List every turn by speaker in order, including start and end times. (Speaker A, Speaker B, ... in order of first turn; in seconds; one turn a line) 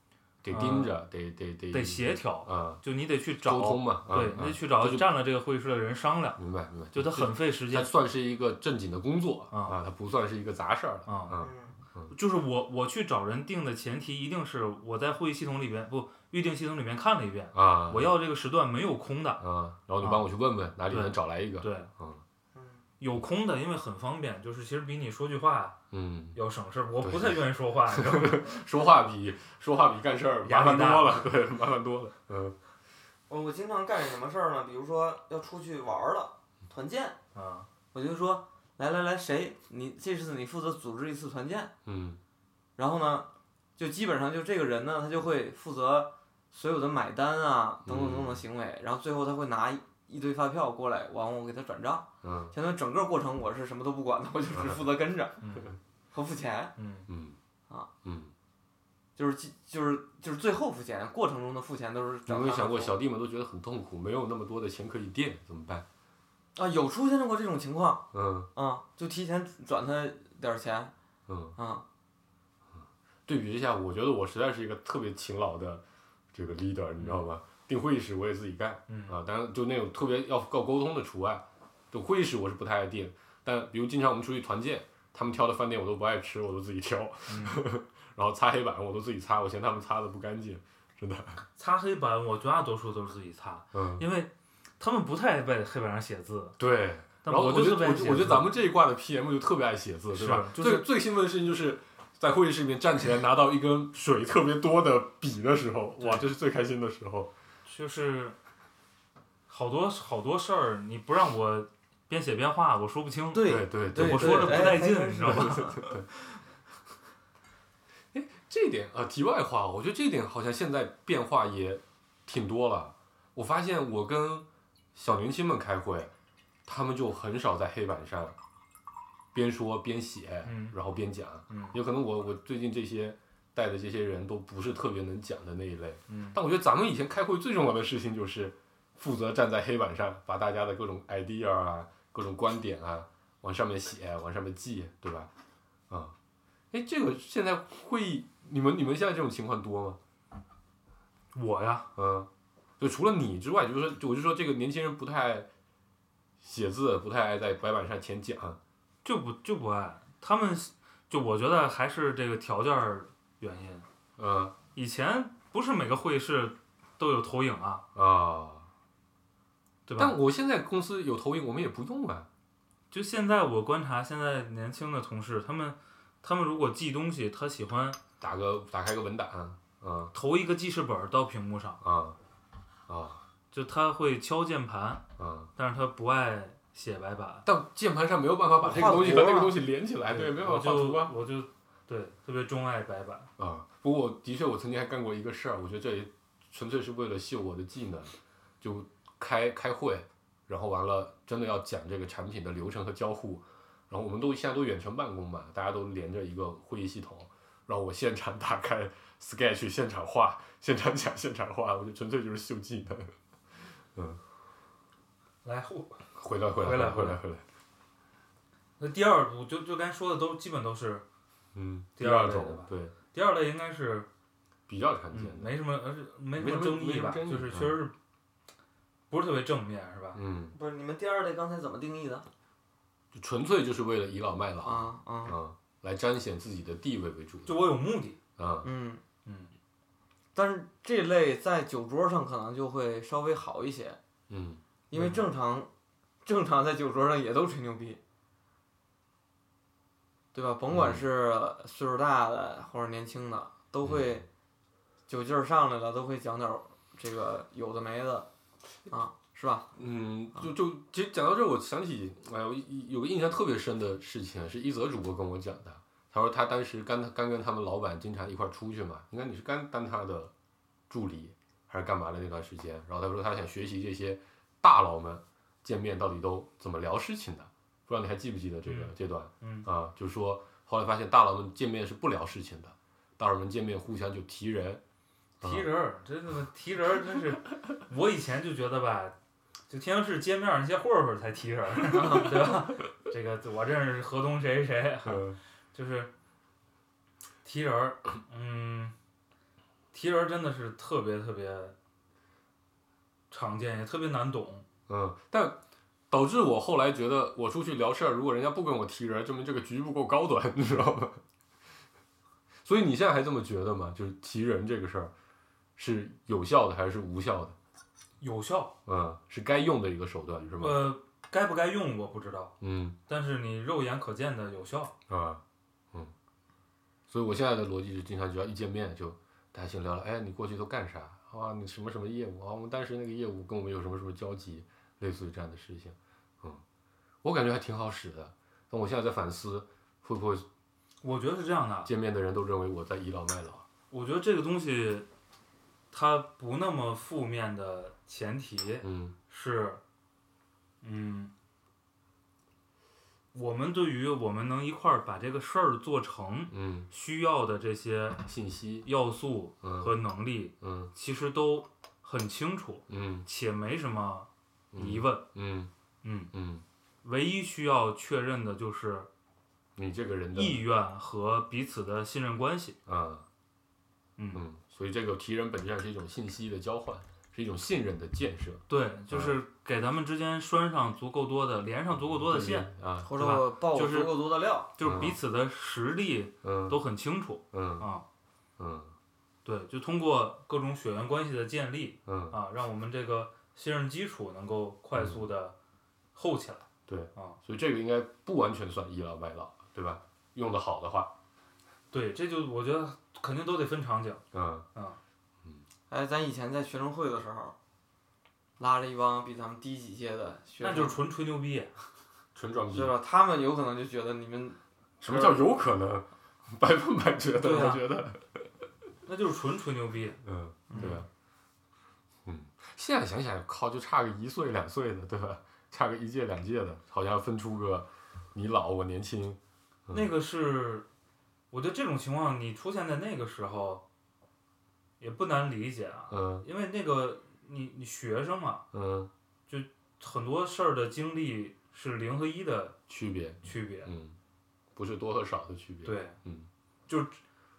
Speaker A: 0.4-2.8
Speaker B: 0.5-0.9
Speaker B: 1.7-6.4
Speaker A: 3.4-5.1
Speaker A: 6.4-12.1
Speaker B: 6.9-7.9
Speaker B: 9.5-9.8
Speaker B: 11.1-11.4
Speaker C: 11.4-11.8
Speaker B: 12.1-19.4
Speaker A: 17.5-18.1
Speaker A: 19.4-22.2
Speaker B: 20.0-20.3
Speaker B: 20.9-21.9
Speaker C: 22.5-22.8
Speaker B: 23.0-25.8
Speaker A: 25.9-26.4
Speaker B: 26.3-28.5
Speaker A: 27.0-32.5
Speaker B: 30.4-31.3
Speaker C: 33.3-37.2
Speaker B: 37.3-37.7
Speaker C: 37.9-41.7
Speaker A: 41.9-42.2
Speaker C: 42.8-55.4
Speaker A: 47.9-48.4
Speaker A: 52.2-52.5
Speaker A: 54.5-54.9
Speaker B: 55.4-55.7
Speaker C: 56.1-56.7
Speaker B: 56.8-57.1
Speaker A: 57.1-57.4
Speaker A: 58.0-58.3
Speaker C: 59.2-63.0
Speaker A: 62.3-65.8
Speaker C: 66.5-70.9
Speaker A: 68.1-68.5
Speaker A: 71.3-71.5
Speaker C: 71.5-71.8
Speaker A: 72.8-91.4
Speaker B: 78.9-79.2
Speaker B: 87.3-87.6
Speaker B: 91.5-96.6
Speaker A: 93.7-94.0
Speaker A: 96.6-107.3
Speaker B: 97.2-98.5
Speaker B: 100.1-100.8
Speaker B: 106.0-106.2
Speaker B: 107.7-108.3
Speaker B: 109.5-115.9
Speaker C: 113.3-115.9
Speaker A: 113.5-116.1
Speaker A: 118.1-126.1
Speaker A: 126.7-128.3
Speaker A: 129.3-145.3
Speaker B: 130.4-130.8
Speaker B: 131.5-131.8
Speaker B: 136.1-136.4
Speaker A: 145.9-146.1
Speaker A: 146.7-150.0
Speaker B: 151.3-151.9
Speaker A: 151.9-152.3
Speaker A: 152.8-155.5
Speaker A: 156.4-158.6
Speaker B: 159.0-163.8
Speaker A: 164.2-164.5
Speaker B: 164.7-167.8
Speaker A: 167.9-168.7
Speaker B: 169.8-170.2
Speaker A: 170.0-172.3
Speaker B: 172.9-178.0
Speaker A: 178.2-180.1
Speaker B: 180.1-181.8
Speaker A: 181.8-182.2
Speaker A: 182.9-183.2
Speaker B: 183.5-185.0
Speaker A: 185.2-185.5
Speaker B: 185.6-187.4
Speaker A: 187.4-191.1
Speaker B: 188.6-189.4
Speaker C: 188.7-189.6
Speaker B: 190.1-193.3
Speaker A: 193.4-214.2
Speaker B: 215.4-216.0
Speaker A: 216.1-217.4
Speaker B: 216.6-217.2
Speaker B: 218.8-221.0
Speaker A: 221.5-222.9
Speaker B: 222.0-224.1
Speaker A: 224.7-225.5
Speaker B: 225.1-227.9
Speaker A: 226.4-227.8
Speaker B: 229.1-230.2
Speaker A: 230.1-230.6
Speaker C: 230.5-232.3
Speaker A: 233.1-237.6
Speaker C: 234.6-235.4
Speaker B: 237.4-238.2
Speaker A: 238.4-238.7
Speaker C: 238.6-239.0
Speaker B: 239.2-239.5
Speaker C: 240.3-244.0
Speaker A: 244.3-244.6
Speaker C: 244.9-245.7
Speaker B: 244.9-245.2
Speaker C: 246.2-248.0
Speaker C: 250.3-254.2
Speaker A: 250.7-251.1
Speaker A: 253.8-254.2
Speaker C: 255.1-258.3
Speaker C: 258.9-259.7
Speaker A: 259.8-270.3
Speaker A: 270.9-284.8
Speaker B: 278.6-279.7
Speaker A: 285.4-285.7
Speaker B: 285.4-289.1
Speaker B: 289.7-296.1
Speaker C: 291.9-292.2
Speaker A: 295.0-295.4
Speaker B: 297.4-298.9
Speaker B: 299.9-301.7
Speaker B: 303.3-304.6
Speaker A: 304.9-305.6
Speaker A: 306.1-311.2
Speaker A: 312.6-315.1
Speaker A: 315.8-317.6
Speaker B: 318.2-318.8
Speaker A: 318.9-320.9
Speaker B: 320.6-322.5
Speaker A: 322.6-323.0
Speaker B: 323.1-324.9
Speaker A: 325.1-325.4
Speaker A: 327.1-336.6
Speaker A: 337.2-340.4
Speaker B: 341.0-341.9
Speaker A: 341.8-343.6
Speaker B: 343.9-345.1
Speaker B: 345.9-349.8
Speaker A: 348.8-349.1
Speaker B: 350.8-351.3
Speaker B: 353.3-358.2
Speaker A: 356.5-356.9
Speaker A: 358.2-358.9
Speaker B: 358.8-365.2
Speaker A: 359.6-359.9
Speaker A: 360.6-360.9
Speaker A: 362.9-363.2
Speaker A: 364.7-365.7
Speaker B: 366.0-366.3
Speaker A: 366.3-366.6
Speaker B: 367.0-369.1
Speaker A: 369.8-370.6
Speaker B: 370.3-372.8
Speaker A: 372.9-373.2
Speaker B: 374.2-374.4
Speaker A: 374.3-379.3
Speaker B: 378.7-384.2
Speaker A: 382.1-383.1
Speaker C: 383.0-384.7
Speaker B: 384.7-388.0
Speaker A: 384.8-385.2
Speaker A: 386.4-386.8
Speaker A: 387.5-387.9
Speaker A: 388.6-388.9
Speaker B: 389.4-395.5
Speaker A: 392.1-392.4
Speaker A: 394.9-395.3
Speaker B: 396.1-397.4
Speaker A: 396.9-401.1
Speaker B: 401.9-404.2
Speaker A: 404.3-404.7
Speaker C: 405.9-407.5
Speaker C: 408.6-411.0
Speaker B: 410.6-411.8
Speaker A: 412.3-412.9
Speaker C: 412.7-415.4
Speaker A: 415.0-418.5
Speaker B: 417.4-417.8
Speaker B: 419.1-421.0
Speaker A: 420.2-421.1
Speaker A: 422.2-430.1
Speaker B: 429.9-430.9
Speaker B: 431.5-433.8
Speaker B: 435.0-438.6
Speaker A: 436.1-436.4
Speaker A: 438.7-439.1
Speaker B: 439.5-442.8
Speaker A: 442.9-444.1
Speaker B: 443.4-443.9
Speaker A: 444.8-446.5
Speaker B: 445.8-446.2
Speaker B: 446.9-447.2